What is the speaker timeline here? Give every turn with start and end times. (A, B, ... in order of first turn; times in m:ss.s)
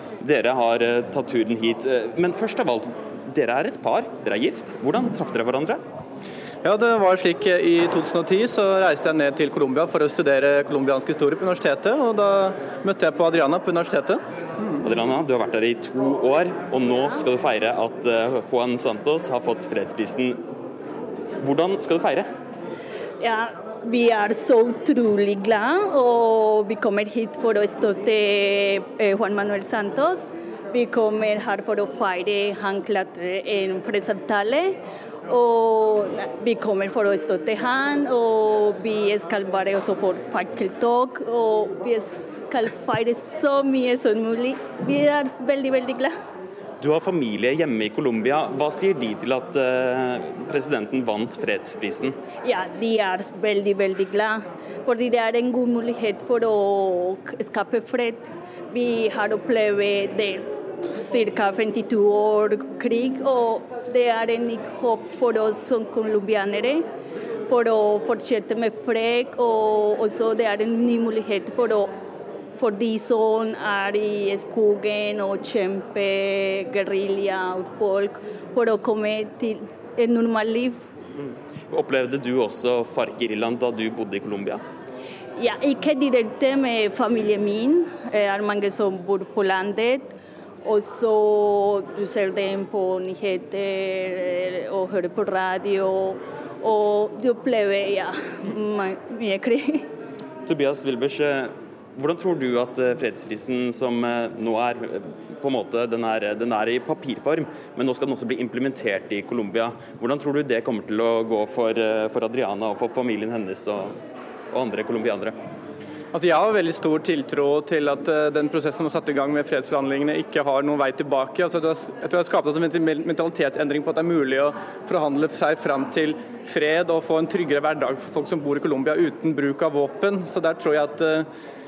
0:00.2-0:05.8 A
0:06.6-0:14.2 B
0:14.8-0:20.4 A
0:21.4-0:22.3 A
0:23.2-0:34.8 C
0:35.3-0:46.1 C
0:46.8-0:52.2 A
0:52.4-1:00.5 C
1:01.0-1:06.8 C
1:07.5-1:11.9 C
1:12.6-1:20.8 C
1:21.2-1:24.6 A
1:25.4-1:30.1 C
1:30.6-1:39.9 C
1:40.5-1:54.0 A
1:54.5-1:55.3 A
1:56.2-2:11.2 B